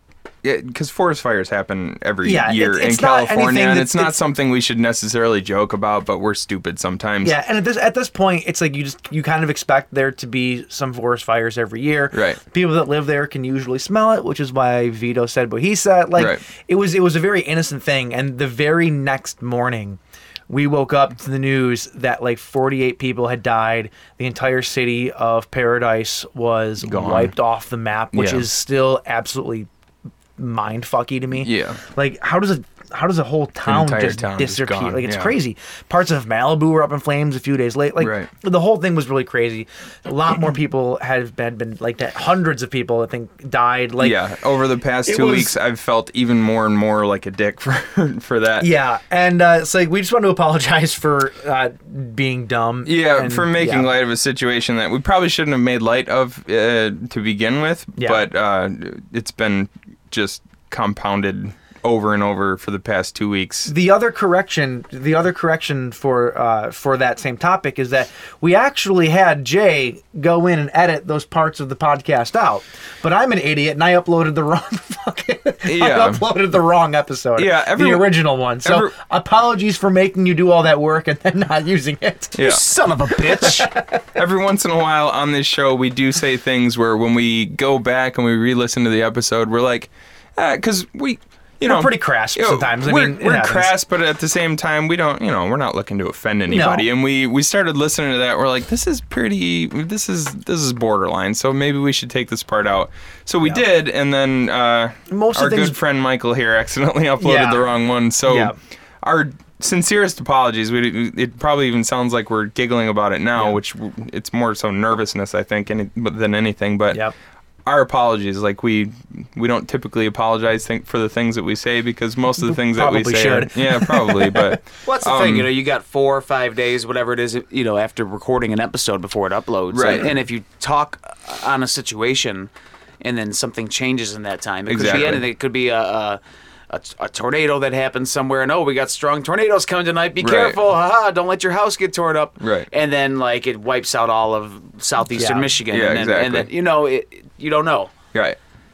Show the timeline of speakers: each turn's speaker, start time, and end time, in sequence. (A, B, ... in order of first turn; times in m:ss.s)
0:00.4-0:07.4 A
0:02.2-0:04.2 B
0:07.2-0:29.7 B
0:12.1-0:12.4 A
0:16.2-0:16.4 A
0:26.8-0:27.3 A
0:28.1-0:28.5 A
0:30.4-0:44.2 B
0:31.4-0:31.8 A
0:33.7-0:35.4 A
0:38.0-0:38.3 A
0:44.0-0:48.7 A
0:45.1-0:45.5 B
0:48.6-0:53.9 B
0:52.8-1:03.7 A
0:58.0-0:58.2 B
1:03.7-1:22.4 B
1:15.7-1:16.2 A
1:17.4-1:19.0 A
1:22.4-1:22.6 A
1:22.4-1:23.7 C
1:23.4-1:24.0 B
1:24.2-1:57.0 A
1:31.6-1:33.8 B
1:36.5-1:36.9 B
1:45.1-1:45.8 B
1:47.2-1:47.7 B
1:48.2-1:48.6 B
1:57.7-2:05.5 A
2:02.4-2:04.6 B
2:04.8-2:12.5 C
2:09.7-2:10.1 A
2:13.0-2:27.9 C
2:14.7-2:15.2 A
2:20.2-2:20.6 A
2:22.4-2:22.7 A
2:25.2-2:25.5 B
2:25.7-2:26.5 A